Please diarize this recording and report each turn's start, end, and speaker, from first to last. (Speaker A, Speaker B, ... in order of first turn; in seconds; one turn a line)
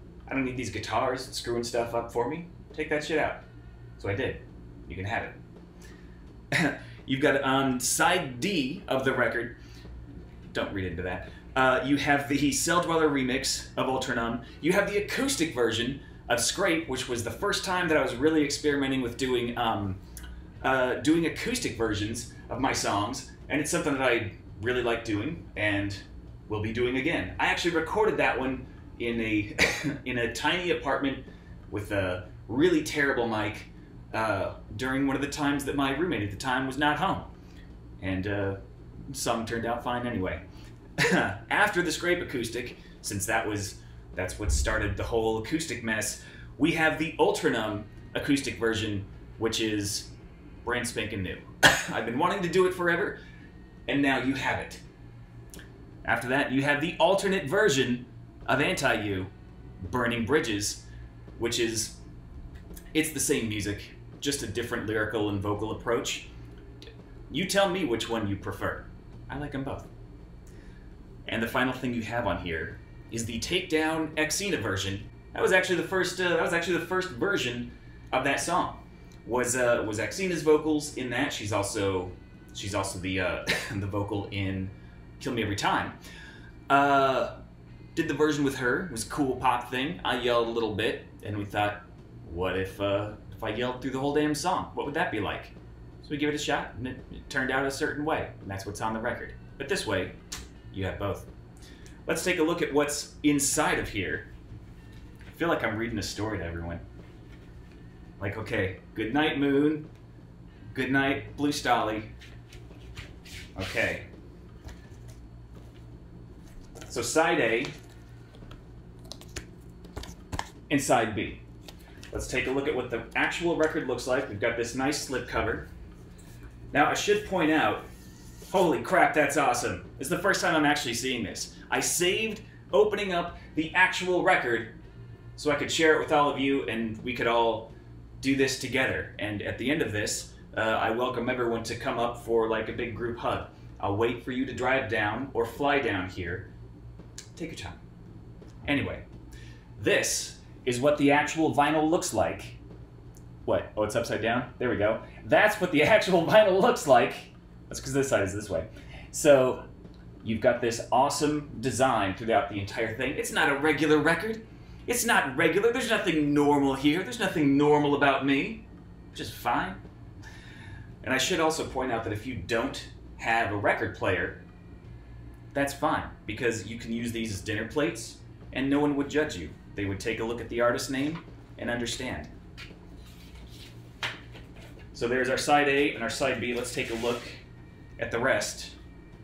Speaker A: 0.3-3.4
Speaker A: 4.0-5.4
Speaker A: 6.5-9.6
Speaker A: 10.5-20.0
Speaker A: 20.6-37.3
Speaker A: 38.0-40.4
Speaker A: 41.0-50.1
Speaker A: 50.6-53.2
Speaker A: 53.9-54.8
Speaker A: 56.0-59.3
Speaker A: 59.8-60.9
Speaker A: 61.4-62.0
Speaker A: 62.9-66.3
Speaker A: 67.3-69.9
Speaker A: 71.3-86.0
Speaker A: 86.7-87.4
Speaker A: 88.0-100.2
Speaker A: 100.7-101.3
Speaker A: 102.1-104.3
Speaker A: 105.3-106.8
Speaker A: 108.2-109.9
Speaker A: 110.7-112.1
Speaker A: 113.6-114.1
Speaker A: 116.9-117.7
Speaker A: 120.7-121.4
Speaker A: 122.1-125.7
Speaker A: 126.7-127.9
Speaker A: 128.5-134.8
Speaker A: 135.4-146.5
Speaker A: 147.3-147.8
Speaker A: 148.7-149.1
Speaker A: 149.8-152.6
Speaker A: 153.5-159.7
Speaker A: 160.2-169.8
Speaker A: 171.0-174.4
Speaker A: 175.5-182.3
Speaker A: 184.9-187.4
Speaker A: 188.0-188.8